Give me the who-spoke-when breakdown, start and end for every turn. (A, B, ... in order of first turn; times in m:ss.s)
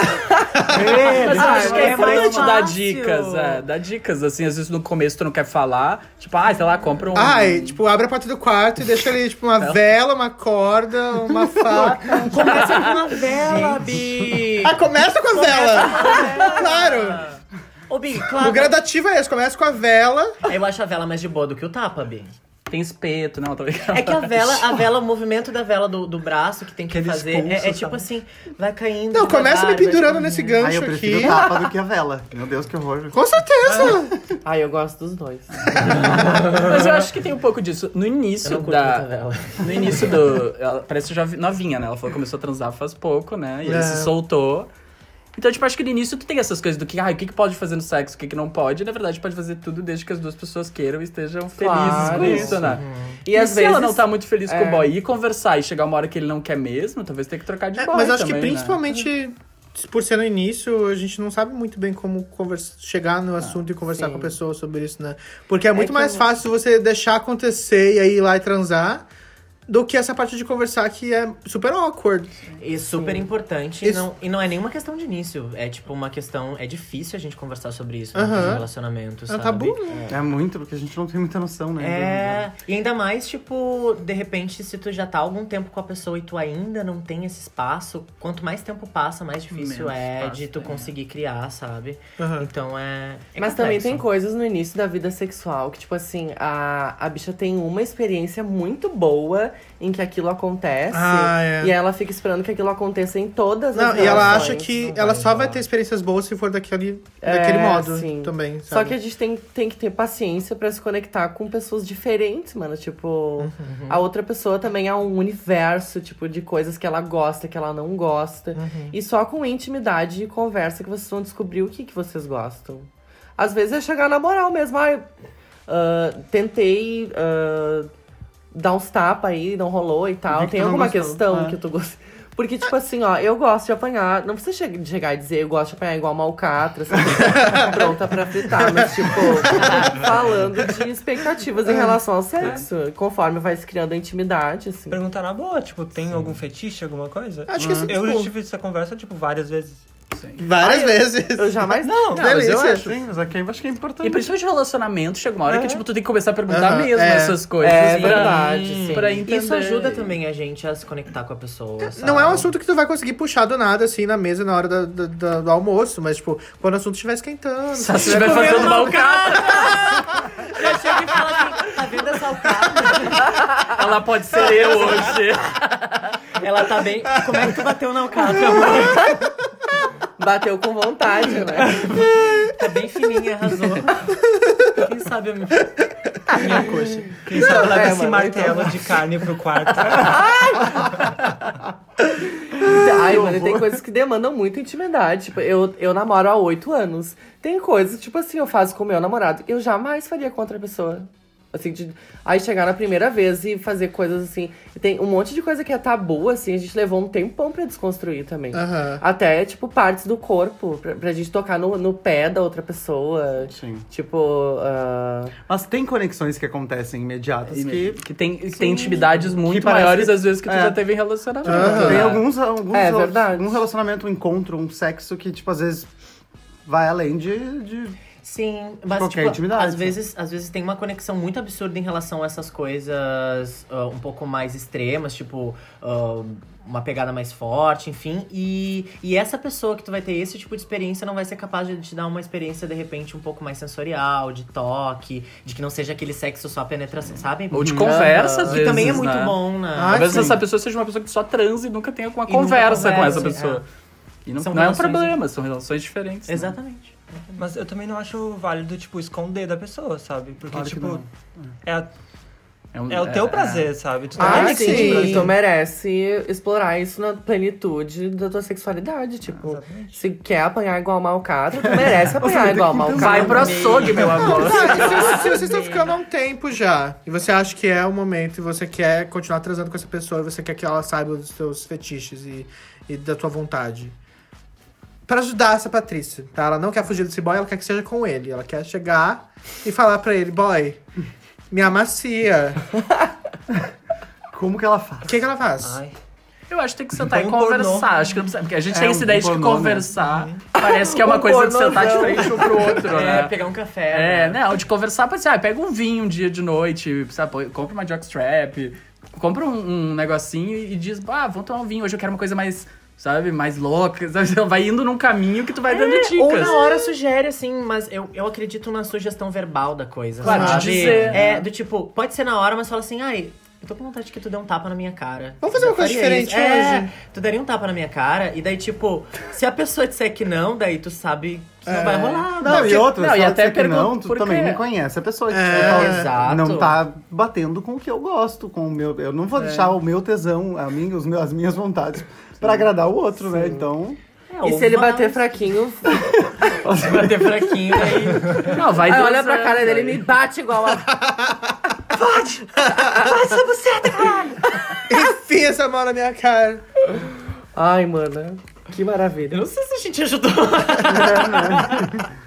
0:00.6-0:02.6 A
0:00.7-0:01.0 B
0:00.8-0:03.6 C
0:01.1-0:07.8 D
0:01.1-0:02.0 E
0:07.1-0:12.7 B
0:11.7-0:12.1 A
0:12.1-0:14.8 C
0:12.4-0:13.0 D
0:14.6-0:17.2 B
0:15.3-0:18.8 C
0:18.4-0:20.4 B
0:20.4-0:22.3 C
0:22.7-0:24.8 D
0:23.9-0:30.6 C
0:26.9-0:28.0 F
0:29.1-0:31.5 B
0:30.6-0:33.2 A
0:33.1-0:34.2 B
0:34.4-0:36.6 E
0:35.7-0:44.7 D
0:38.4-0:39.9 C
0:43.6-0:44.1 B
0:45.3-0:58.8 D
0:51.6-0:52.6 E
0:52.0-0:52.5 B
0:52.0-0:52.6 A
0:52.6-0:53.2 C
0:53.2-0:54.9 E
0:57.8-1:09.0 B
1:03.8-1:04.3 E
1:05.8-1:06.1 E
1:09.7-1:12.3 B
1:12.6-1:19.9 C
1:13.0-1:13.2 E
1:18.1-1:18.7 B
1:19.3-1:20.1 B
1:20.1-1:22.5 A
1:21.8-1:34.0 C
1:29.5-1:30.9 D
1:32.2-1:32.5 B
1:33.4-1:44.7 E
1:40.9-1:41.8 B
1:43.7-1:49.0 B
1:44.0-1:45.6 F
1:47.2-2:05.1 E
1:53.4-1:54.0 B
1:53.7-1:53.9 C
1:58.5-1:59.0 B
2:05.7-2:07.9 E
2:08.5-2:25.0 E
2:10.3-2:11.6 A
2:17.3-2:17.8 B
2:18.6-2:19.8 B
2:21.6-2:22.0 B
2:22.4-2:22.6 D
2:24.9-2:29.8 F
2:27.5-2:28.3 B
2:27.6-2:27.9 A
2:30.1-2:30.4 D
2:30.4-2:32.8 B
2:30.6-2:31.0 F
2:31.3-2:32.2 E
2:31.8-2:32.4 F
2:32.1-2:32.9 D
2:32.8-2:34.3 A
2:34.0-2:40.1 D
2:35.5-2:35.8 F
2:36.5-2:37.5 B
2:37.6-2:39.2 E
2:37.8-2:42.5 C
2:42.0-2:48.9 B
2:47.7-2:50.1 D
2:48.0-2:53.3 C
2:53.6-2:56.2 D
2:54.3-2:55.2 C
2:56.4-2:59.1 C
3:00.2-3:01.9 E
3:02.4-3:04.1 C
3:04.7-3:05.7 C
3:06.4-3:10.2 F
3:07.3-3:08.8 E
3:09.9-3:11.0 E
3:12.5-3:35.3 E
3:13.0-3:13.7 A
3:28.5-3:29.0 B
3:33.5-3:33.9 A
3:35.5-3:38.0 A
3:37.5-3:42.2 D
3:38.6-3:40.8 A
3:41.4-3:45.9 A
3:41.4-3:42.2 B
3:42.7-3:43.6 E
3:46.6-3:48.0 A
3:48.2-4:10.4 C
3:48.9-3:50.0 A
4:07.5-4:09.4 D
4:07.6-4:07.9 A
4:07.9-4:08.6 E
4:09.7-4:10.4 B
4:09.9-4:13.6 D
4:12.3-4:13.6 C
4:14.2-4:16.5 D
4:14.4-4:15.2 C
4:16.3-4:17.4 C
4:17.4-4:21.0 F
4:20.5-4:21.5 A
4:21.6-4:21.9 F
4:22.7-4:23.7 D
4:22.9-4:25.3 F
4:24.2-4:25.3 B
4:24.2-4:33.9 E
4:29.3-4:30.0 F
4:31.6-4:34.0 A
4:32.9-4:35.3 D
4:33.3-4:36.0 C
4:34.0-4:34.3 F
4:34.1-4:44.0 B
4:45.1-4:50.8 B
4:51.5-4:52.6 B
4:54.3-4:55.3 A
4:55.0-4:55.8 B
4:55.6-4:56.0 F
4:56.5-5:03.3 D
4:57.0-4:57.9 F
4:58.8-4:59.9 A
5:00.0-5:00.4 F
5:00.5-5:02.7 E
5:02.8-5:04.4 C
5:03.9-5:16.6 D
5:15.7-5:32.8 C
5:20.2-5:21.4 D
5:20.2-5:21.2 B
5:25.4-5:26.9 B
5:31.6-5:32.9 B
5:32.4-5:44.0 A
5:32.7-5:34.6 D
5:35.3-5:36.1 B
5:35.5-5:36.8 C
5:39.4-5:39.7 D
5:43.4-5:43.6 E
5:44.3-5:45.5 C
5:44.4-5:46.2 E
5:46.0-5:47.8 A
5:46.7-5:48.5 C
5:48.4-5:50.0 D
5:48.7-5:51.0 E
5:50.9-5:51.6 B
5:52.6-5:53.2 B
5:52.8-5:53.1 E
5:52.9-5:54.4 C
5:54.9-5:56.6 B
5:57.5-5:59.4 E
5:59.3-6:01.9 C
6:00.8-6:02.1 A